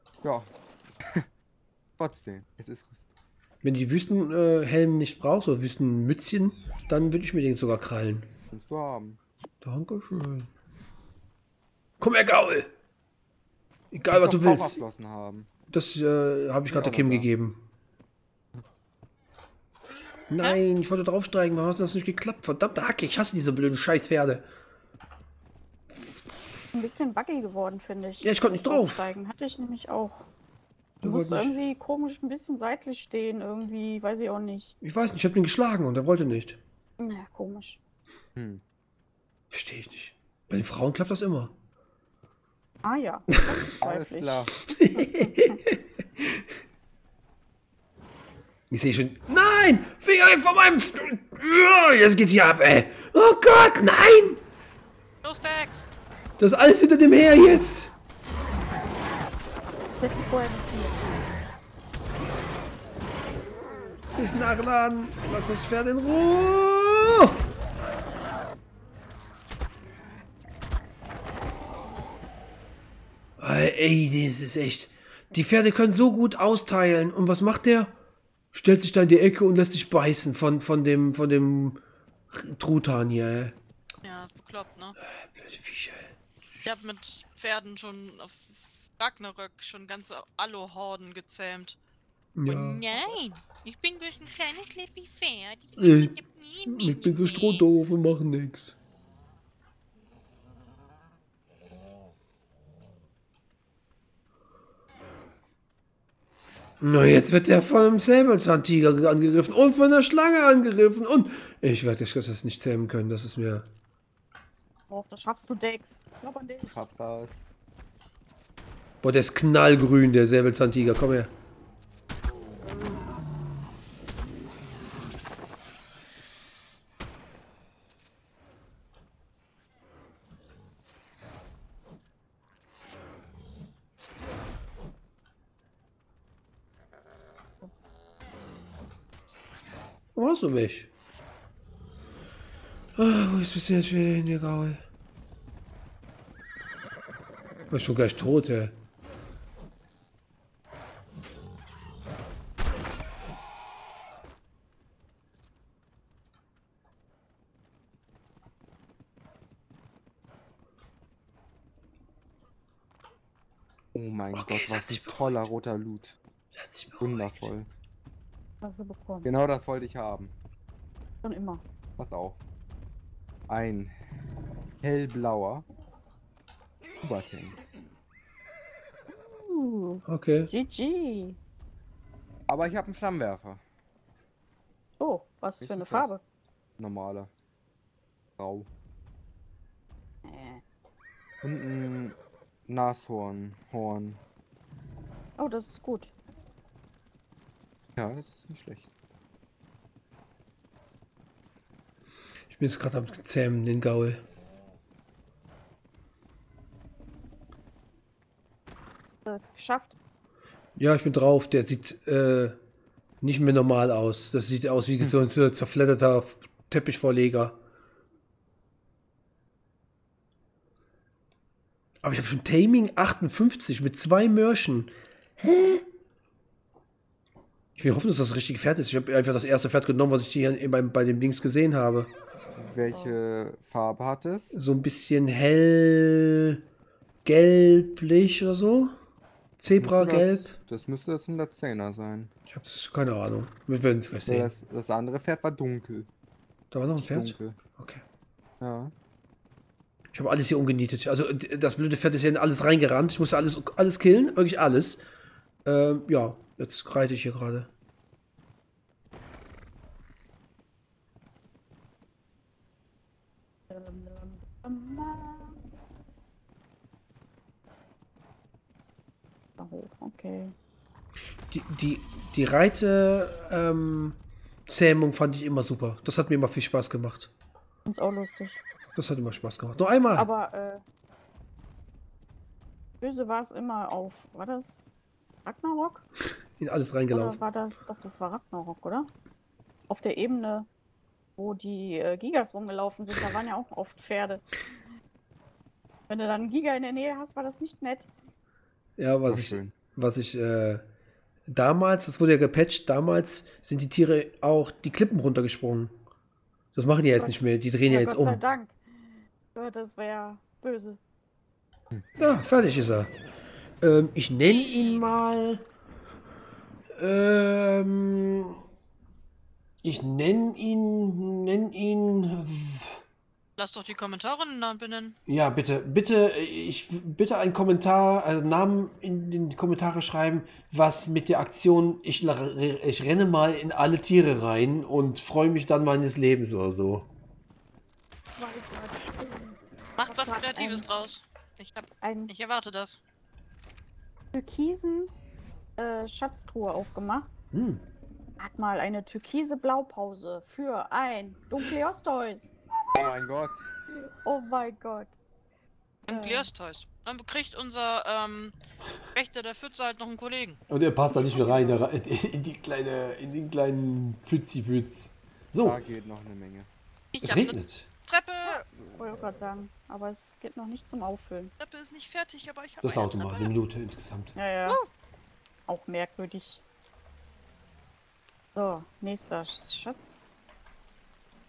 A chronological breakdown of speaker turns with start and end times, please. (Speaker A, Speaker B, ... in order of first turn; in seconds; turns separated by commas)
Speaker A: 0.2-1.3, Speaker A: 2.0-3.1, Speaker B: 3.6-8.3, Speaker A: 8.5-9.2, Speaker B: 9.6-10.5, Speaker B: 12.0-12.7, Speaker B: 13.9-14.8, Speaker A: 14.1-15.5, Speaker B: 15.7-17.6, Speaker A: 16.7-17.3, Speaker B: 20.3-24.4, Speaker C: 26.7-30.2, Speaker B: 28.2-29.1, Speaker B: 31.0-31.6, Speaker C: 31.0-34.7, Speaker B: 34.8-36.6, Speaker C: 37.0-37.8, Speaker A: 38.4-38.6, Speaker B: 39.5-41.5, Speaker C: 42.8-45.6, Speaker A: 43.8-44.6, Speaker B: 44.7-46.5, Speaker B: 48.7-54.4, Speaker D: 55.2-55.9, Speaker B: 56.4-57.9, Speaker C: 60.0-61.1, Speaker B: 64.1-67.4, Speaker B: 73.4-77.9, Speaker B: 78.5-81.8, Speaker B: 82.3-83.5, Speaker D: 84.0-85.0, Speaker B: 85.0-86.1, Speaker D: 86.6-91.8, Speaker B: 92.3-92.8, Speaker D: 92.5-97.7, Speaker C: 92.9-93.2, Speaker B: 95.8-96.1, Speaker B: 96.7-98.7, Speaker B: 106.8-113.7, Speaker C: 114.9-116.8, Speaker A: 116.7-117.4, Speaker B: 119.0-121.3, Speaker B: 140.1-140.9, Speaker B: 142.9-144.8, Speaker B: 147.7-148.8, Speaker A: 163.9-166.2, Speaker B: 164.3-165.4, Speaker B: 166.5-167.5, Speaker A: 167.0-167.7, Speaker C: 168.6-169.3, Speaker A: 169.2-170.3, Speaker C: 171.2-171.6, Speaker A: 172.0-172.4, Speaker A: 173.5-173.9, Speaker A: 174.8-175.7, Speaker A: 177.0-177.6, Speaker C: 179.2-181.4, Speaker B: 180.1-180.5, Speaker A: 182.5-183.6, Speaker C: 185.0-186.2, Speaker A: 185.6-186.1, Speaker A: 186.8-187.3, Speaker A: 188.4-188.7, Speaker C: 190.2-190.6, Speaker A: 191.4-194.2, Speaker C: 195.4-196.1, Speaker A: 198.0-198.9, Speaker B: 202.5-204.2, Speaker C: 209.2-210.0, Speaker B: 210.8-212.6, Speaker B: 213.2-217.6, Speaker B: 222.0-225.8, Speaker B: 227.8-232.1, Speaker A: 232.5-234.5, Speaker C: 232.9-233.2, Speaker B: 234.5-236.6, Speaker B: 237.2-239.0, Speaker B: 239.6-240.5, Speaker A: 239.8-242.3, Speaker B: 242.5-244.5, Speaker A: 244.3-246.1, Speaker B: 246.7-248.0, Speaker A: 247.0-247.6, Speaker A: 248.6-248.9, Speaker B: 250.1-255.0, Speaker B: 255.6-257.7, Speaker C: 263.7-265.6, Speaker C: 269.6-270.5, Speaker B: 271.5-277.3, Speaker C: 277.9-278.6, Speaker B: 278.9-280.3, Speaker C: 280.1-280.8, Speaker C: 283.0-284.9, Speaker C: 285.4-286.1, Speaker B: 286.6-287.4, Speaker C: 287.1-289.1, Speaker C: 289.9-290.7, Speaker C: 291.4-294.4, Speaker C: 296.1-298.1, Speaker B: 299.0-300.8, Speaker A: 299.3-299.7, Speaker B: 301.5-305.9, Speaker B: 306.7-308.4, Speaker C: 307.9-308.8, Speaker C: 309.5-311.0, Speaker A: 311.9-312.4, Speaker B: 312.2-313.1, Speaker B: 313.8-315.6, Speaker D: 314.4-315.1, Speaker B: 316.9-318.6, Speaker B: 319.8-323.0, Speaker D: 323.6-325.2, Speaker B: 325.3-337.1, Speaker C: 338.4-340.9, Speaker D: 340.0-343.0, Speaker C: 342.0-342.3, Speaker C: 344.3-345.1, Speaker C: 345.8-347.3, Speaker B: 347.5-347.8, Speaker C: 348.4-352.5, Speaker A: 352.9-353.7, Speaker C: 354.2-355.1, Speaker D: 356.1-358.5, Speaker C: 356.1-356.5, Speaker D: 359.1-360.6, Speaker B: 360.7-365.8, Speaker C: 361.1-361.8, Speaker A: 365.6-366.7, Speaker D: 367.1-368.6, Speaker B: 367.2-367.9, Speaker C: 368.4-371.5, Speaker D: 371.6-373.5, Speaker B: 372.8-374.4, Speaker C: 374.4-374.8, Speaker C: 375.7-376.6, Speaker C: 378.5-380.3